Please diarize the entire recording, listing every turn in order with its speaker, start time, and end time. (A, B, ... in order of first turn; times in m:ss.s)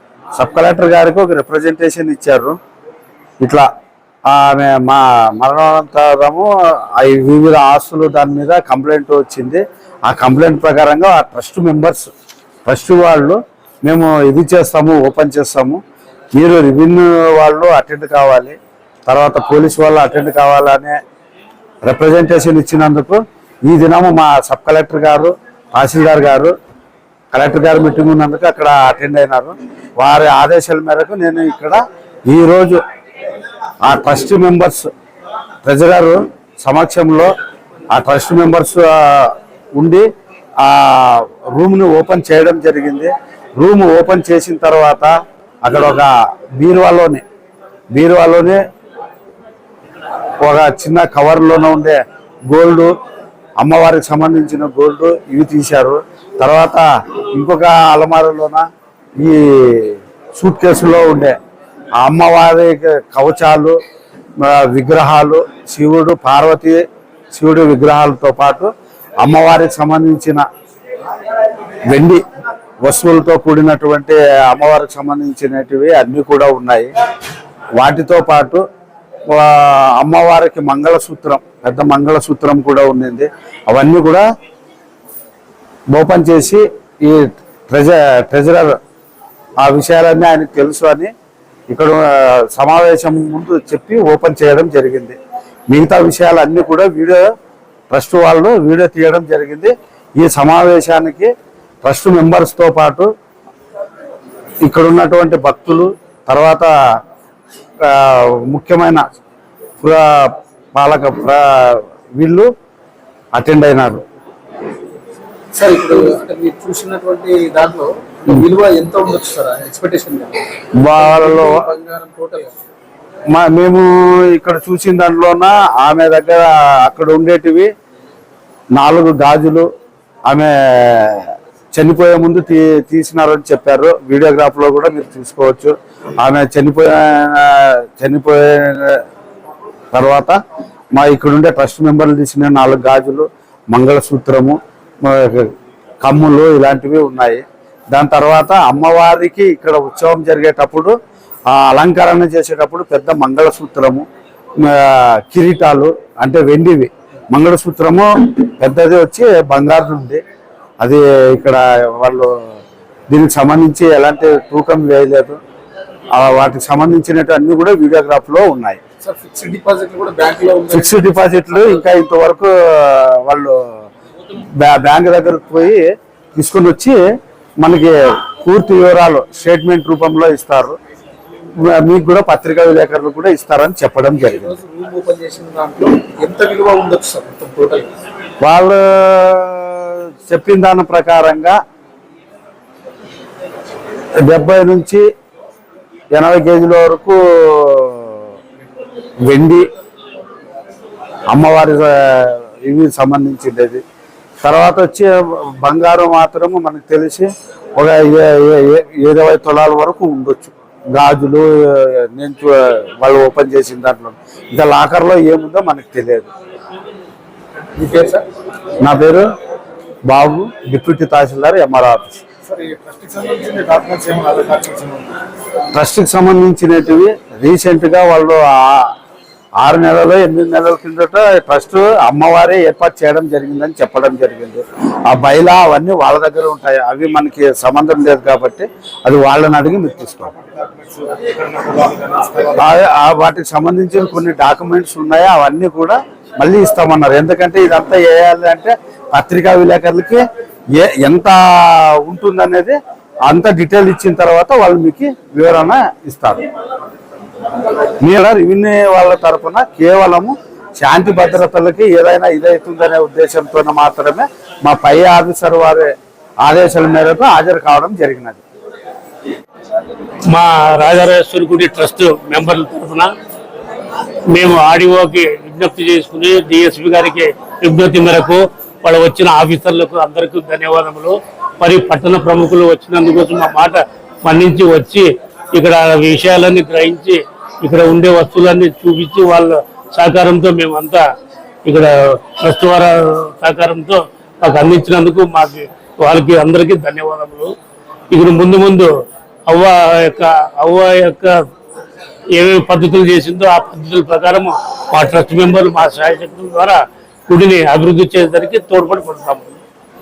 0:00.3-0:02.5 A
0:03.4-0:03.7 A
0:04.3-0:12.1 A
0:12.6-0:15.8 A
0:16.3-0:18.6 A
0:19.1-0:21.0 A
0:21.8-0:26.5 A
0:27.3-0:32.8 A
0:33.8-0:34.9 A
0:35.6-0:37.3 A
0:37.9-0:40.1 A
0:40.6-0:45.1 A
0:45.6-0:47.2 A
0:47.9-0:48.6 A
0:50.4-0:52.9 A
0:53.6-0:58.6 A
0:59.2-1:01.4 A
1:02.0-1:03.8 A
1:04.4-1:10.4 A
1:11.9-1:12.2 A
1:12.8-1:16.9 A
1:17.8-1:18.6 A
1:19.3-1:24.2 A
1:25.9-1:28.7 A
1:29.6-1:31.1 A
1:31.7-1:35.2 A
1:35.7-1:37.2 A
1:37.9-1:41.3 A
1:41.8-1:43.1 A
1:44.6-1:46.7 A
1:47.8-1:49.0 A
1:49.8-1:52.5 A
1:53.3-1:54.0 A
1:55.5-2:00.4 B
2:00.8-2:01.6 A
2:00.9-2:02.5 B
2:03.3-2:07.7 A
2:08.7-2:09.7 A
2:10.2-2:19.0 A
2:19.9-2:20.3 A
2:20.9-2:25.5 A
2:26.0-2:30.9 A
2:31.5-2:34.0 A
2:34.6-2:40.2 A
2:40.8-2:42.3 A
2:43.1-2:45.4 A
2:46.1-2:48.8 A
2:49.0-2:51.1 B
2:50.7-2:53.8 A
2:54.6-2:57.0 A
2:57.6-3:00.8 A
3:01.6-3:04.5 A
3:04.2-3:07.9 B
3:08.4-3:11.6 A
3:14.2-3:15.0 A
3:16.1-3:18.2 A
3:19.2-3:19.7 A
3:21.3-3:23.8 A
3:24.4-3:36.3 A
3:37.8-3:38.2 B
3:38.8-3:39.2 A
3:40.1-3:42.2 A
3:42.4-3:45.2 B
3:45.7-3:48.9 A
3:49.6-4:00.3 A
4:02.3-4:10.2 A
4:10.8-4:16.4 A
4:18.0-4:28.4 A
4:30.3-4:33.1 C
4:34.3-4:51.0 C
4:51.6-4:57.5 C
4:58.1-4:58.9 C
4:59.5-5:01.4 C
5:02.4-5:09.4 C